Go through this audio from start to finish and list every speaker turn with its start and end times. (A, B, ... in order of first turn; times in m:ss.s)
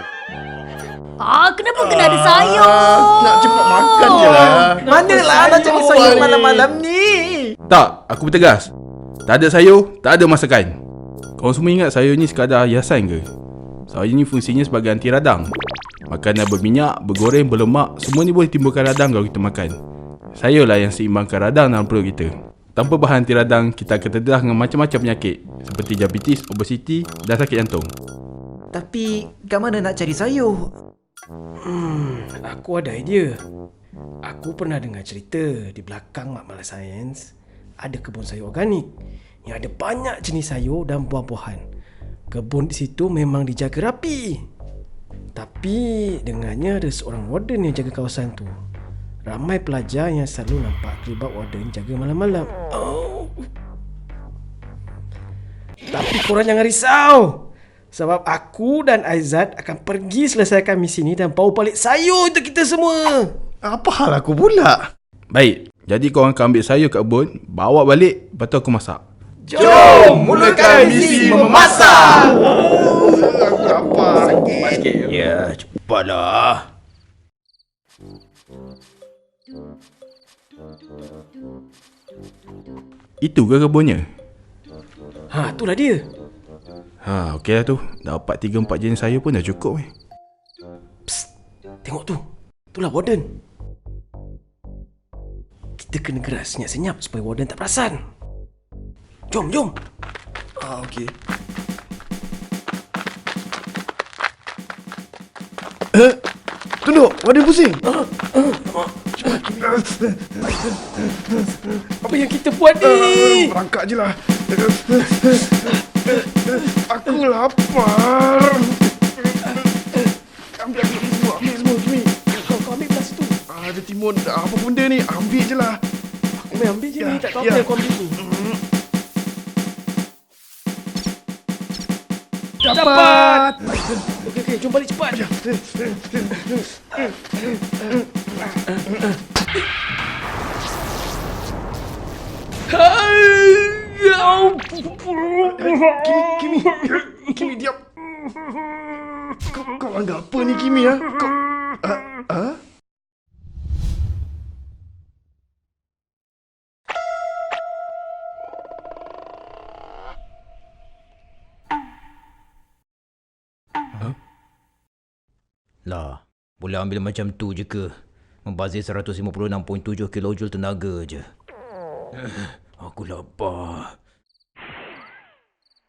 0:01.2-0:04.8 A
0:01.8-0:06.7 B
0:04.9-0:07.5 C
0:05.1-0:05.9 D
0:07.7-0:08.7 E
0:09.3-0:10.8 E
0:11.4-0:13.3 E
0:13.9-0:15.5 E
0:16.1-0:19.8 E
0:20.4-0:27.9 E
0:28.7-0:30.7 C
0:31.6-0:33.4 D
0:34.2-0:37.3 D
0:37.8-0:38.9 D
0:39.4-0:41.6 D
0:42.3-0:44.4 D
0:45.4-0:48.5 D
0:49.3-0:53.5 D
0:55.9-0:57.4 D
0:57.9-1:03.3 D
1:03.6-1:04.8 B
1:05.3-1:09.0 E
1:09.5-1:12.4 C
1:09.6-1:12.3 E
1:09.6-1:10.2 D
1:10.8-1:11.3 D
1:12.8-1:14.4 B
1:14.8-1:16.7 C
1:23.2-1:24.0 E
1:25.3-1:26.0 D
1:27.0-1:29.9 E
1:31.8-1:32.2 D
1:32.7-1:33.2 D
1:35.8-1:38.0 D
1:39.3-1:39.7 D
1:40.6-1:41.1 B
1:45.9-1:46.2 B
1:46.8-1:47.8 B
1:47.9-1:49.4 D
1:49.2-1:50.4 B
1:52.0-1:53.6 D
1:52.8-1:59.3 B
1:55.5-1:56.1 D
2:00.6-2:02.2 B
2:02.3-2:03.4 D
2:03.5-2:05.8 B
2:06.4-2:08.2 D
2:07.0-2:08.6 B
2:12.6-2:14.0 B
2:12.7-2:13.5 D
2:14.2-2:15.2 D
2:15.1-2:16.6 B
2:18.7-2:19.0 D
2:22.7-2:27.3 D
2:25.4-2:27.8 B
2:29.5-2:31.3 B
2:31.8-2:32.6 B
2:45.9-2:51.3 C
2:52.2-2:53.9 C